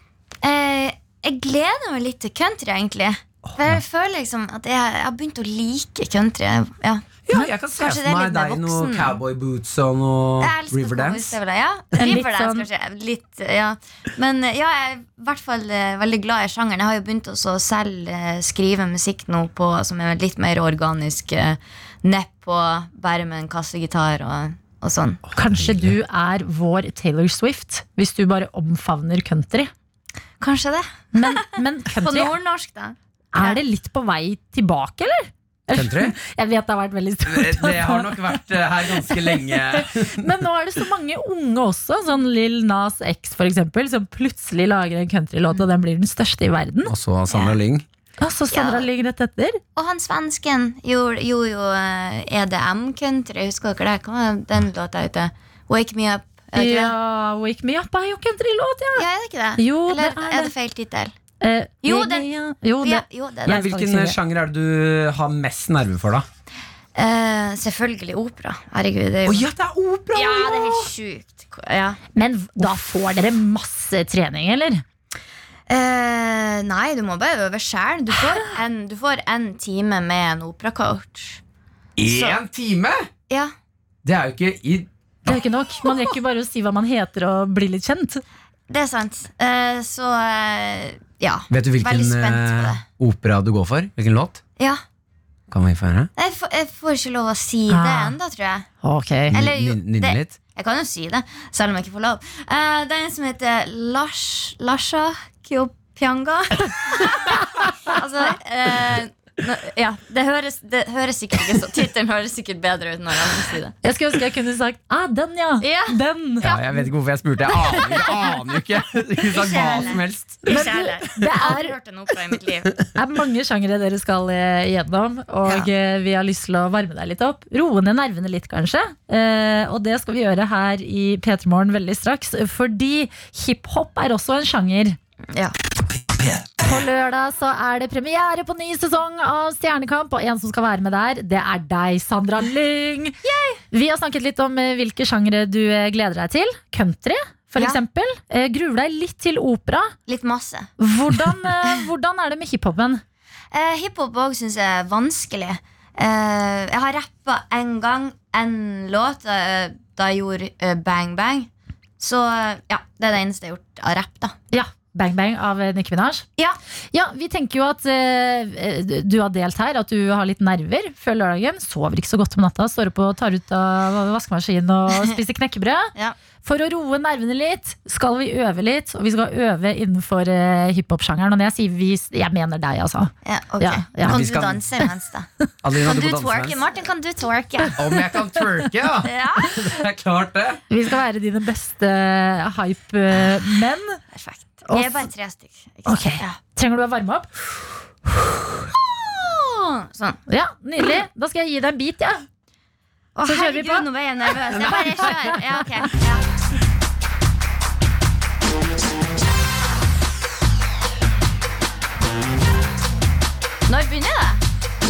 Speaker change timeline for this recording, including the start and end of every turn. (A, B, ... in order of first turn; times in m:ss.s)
0:00.4-0:07.0 A
0:07.2-0:11.4 B
0:07.7-0:09.2 A
0:10.4-0:25.2 A
0:12.0-0:12.7 C
0:25.3-0:25.9 B
0:25.3-0:29.7 C
0:30.4-0:33.6 A
0:31.1-0:32.3 C
0:33.3-0:38.4 C
0:35.7-0:36.2 B
0:37.2-0:40.2 B
0:39.0-0:46.9 C
0:46.9-0:47.9 B
0:47.3-0:47.6 A
0:48.2-0:49.6 C
0:48.5-0:48.9 A
0:49.8-0:56.9 A
0:56.6-0:59.0 C
0:59.0-1:01.1 A
0:59.6-1:00.5 C
1:01.4-1:04.2 C
1:01.8-1:02.3 A
1:02.8-1:03.6 A
1:03.5-1:06.2 B
1:06.9-1:09.5 A
1:09.2-1:10.9 B
1:10.1-1:12.0 A
1:12.2-1:14.8 C
1:15.7-1:21.4 A
1:22.0-1:23.1 B
1:22.0-1:22.4 A
1:24.0-1:25.3 B
1:25.2-1:28.2 C
1:28.7-1:32.8 A
1:31.5-1:34.4 B
1:35.5-1:36.1 B
1:36.2-1:38.7 A
1:37.7-1:38.2 C
1:38.8-1:39.4 C
1:39.3-1:40.4 B
1:39.3-1:53.7 A
1:53.8-1:56.5 C
1:55.6-1:56.8 A
1:56.4-2:00.6 B
1:57.6-1:58.2 C
1:57.8-1:58.0 A
1:59.2-2:02.7 A
2:00.4-2:01.7 C
2:02.9-2:15.0 C
2:16.6-2:23.2 C
2:23.2-2:23.6 A
2:23.7-2:29.9 C
2:30.1-2:30.7 A
2:30.8-2:33.0 C
2:33.5-2:44.4 A
2:44.5-2:46.2 C
2:46.9-2:55.9 C
2:56.4-3:04.2 C
3:03.2-3:07.9 A
3:04.1-3:04.6 B
3:05.6-3:06.6 B
3:07.8-3:10.6 B
3:09.0-3:09.7 A
3:10.7-3:14.0 C
3:14.1-3:16.4 A
3:14.7-3:15.1 C
3:15.9-3:17.3 C
3:18.7-3:20.2 A
3:20.3-3:22.2 C
3:23.2-3:26.2 A
3:23.2-3:23.9 C
3:24.5-3:25.4 C
3:33.7-3:34.4 A